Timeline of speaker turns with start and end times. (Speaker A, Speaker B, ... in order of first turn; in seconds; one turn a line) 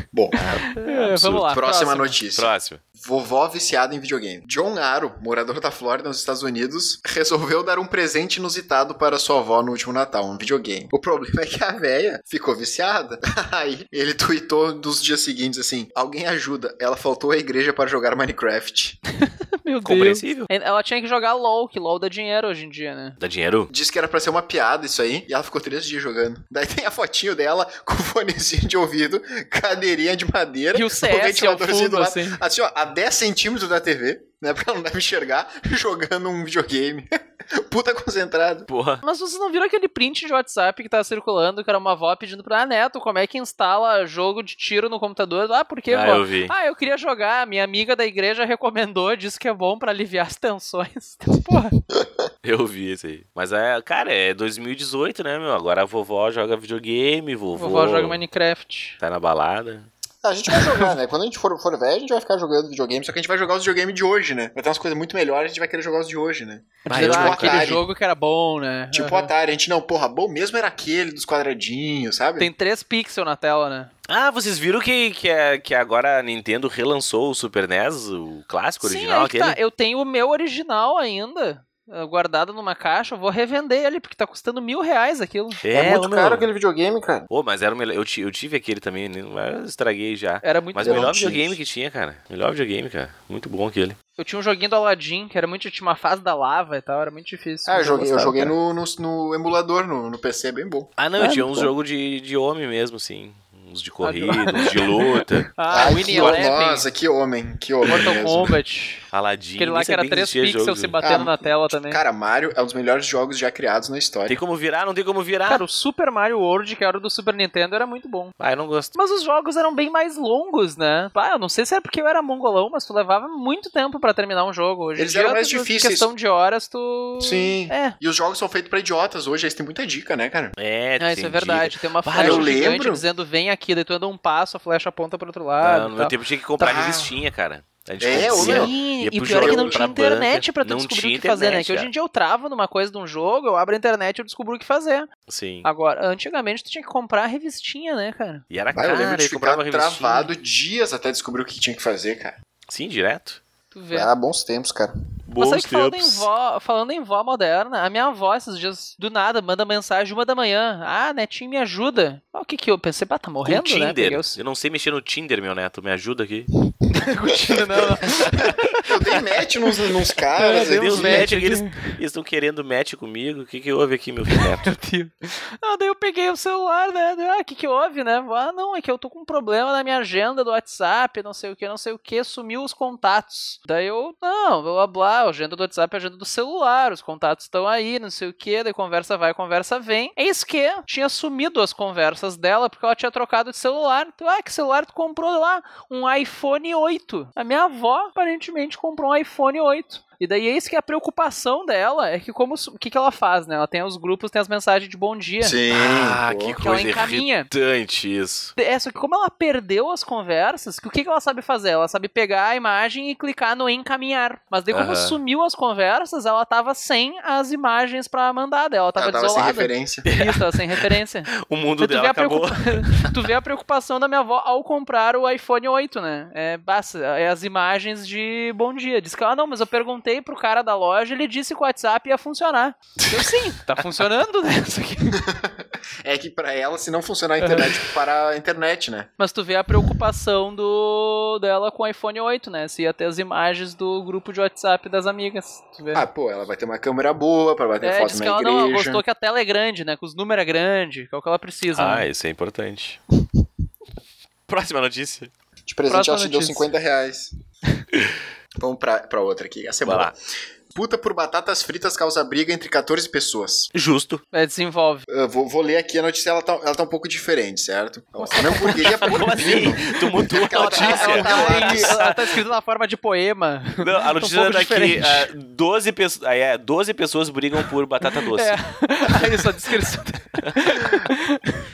Speaker A: 0.4-1.5
Speaker B: 0.7-2.2
Speaker C: 1.5-19.0
Speaker A: 2.3-2.8
Speaker B: 19.3-23.2
Speaker A: 19.9-20.5
Speaker A: 23.2-23.7
Speaker C: 23.7-38.7
Speaker B: 30.7-32.4
Speaker A: 38.7-39.0
Speaker B: 39.0-51.8
Speaker A: 45.9-46.5
Speaker A: 52.4-58.2
Speaker B: 57.6-59.0
Speaker A: 59.0-59.9
Speaker C: 60.2-67.9
Speaker B: 66.9-69.3
Speaker A: 66.9-67.7
Speaker C: 68.9-72.5
Speaker B: 72.4-73.9
Speaker A: 74.1-79.6
Speaker B: 78.8-85.6
Speaker A: 85.6-86.5
Speaker C: 85.7-87.3
Speaker A: 87.3-94.0
Speaker B: 90.4-91.1
Speaker C: 90.8-91.6
Speaker B: 94.2-98.5
Speaker C: 97.7-100.9
Speaker A: 101.0-106.5
Speaker B: 101.2-101.7
Speaker B: 104.0-106.9
Speaker C: 105.7-108.6
Speaker B: 107.9-109.0
Speaker A: 109.1-111.0
Speaker B: 109.6-112.0
Speaker C: 111.0-114.4
Speaker A: 114.3-115.6
Speaker B: 115.5-118.3
Speaker A: 118.4-119.0
Speaker B: 119.0-128.0
Speaker C: 125.0-126.1
Speaker C: 127.2-130.6
Speaker A: 130.6-132.7
Speaker B: 131.0-136.9
Speaker C: 132.2-133.0
Speaker A: 135.6-141.9
Speaker C: 136.6-137.1
Speaker C: 138.0-138.8
Speaker B: 138.3-145.1
Speaker C: 139.3-139.9
Speaker A: 145.3-145.7
Speaker B: 145.6-148.4
Speaker A: 148.5-150.3
Speaker C: 148.7-152.4
Speaker A: 152.7-153.4
Speaker B: 153.7-154.1
Speaker C: 153.9-154.9
Speaker A: 155.3-156.3
Speaker B: 155.4-164.4
Speaker A: 163.4-166.5
Speaker B: 166.9-168.8
Speaker C: 168.8-171.3
Speaker B: 170.4-172.0
Speaker A: 170.6-174.8
Speaker B: 174.3-205.6
Speaker C: 205.4-206.6
Speaker A: 205.7-208.5
Speaker B: 206.6-207.5
Speaker B: 208.6-235.2
Speaker A: 214.7-215.2
Speaker C: 219.0-220.1
Speaker A: 220.1-223.1
Speaker C: 235.1-239.1
Speaker B: 237.4-237.7
Speaker B: 239.2-246.1
Speaker C: 245.9-249.0
Speaker B: 247.8-252.1
Speaker A: 251.7-253.0
Speaker A: 254.5-255.3
Speaker C: 255.7-257.3
Speaker B: 255.9-256.7
Speaker C: 258.6-260.1
Speaker A: 259.9-260.1
Speaker C: 260.7-263.7
Speaker A: 263.7-264.2
Speaker B: 264.3-265.1
Speaker C: 265.1-272.0
Speaker B: 268.2-270.0
Speaker A: 268.7-272.4
Speaker B: 270.6-275.3
Speaker A: 273.8-278.6
Speaker B: 278.1-281.5
Speaker A: 280.4-281.0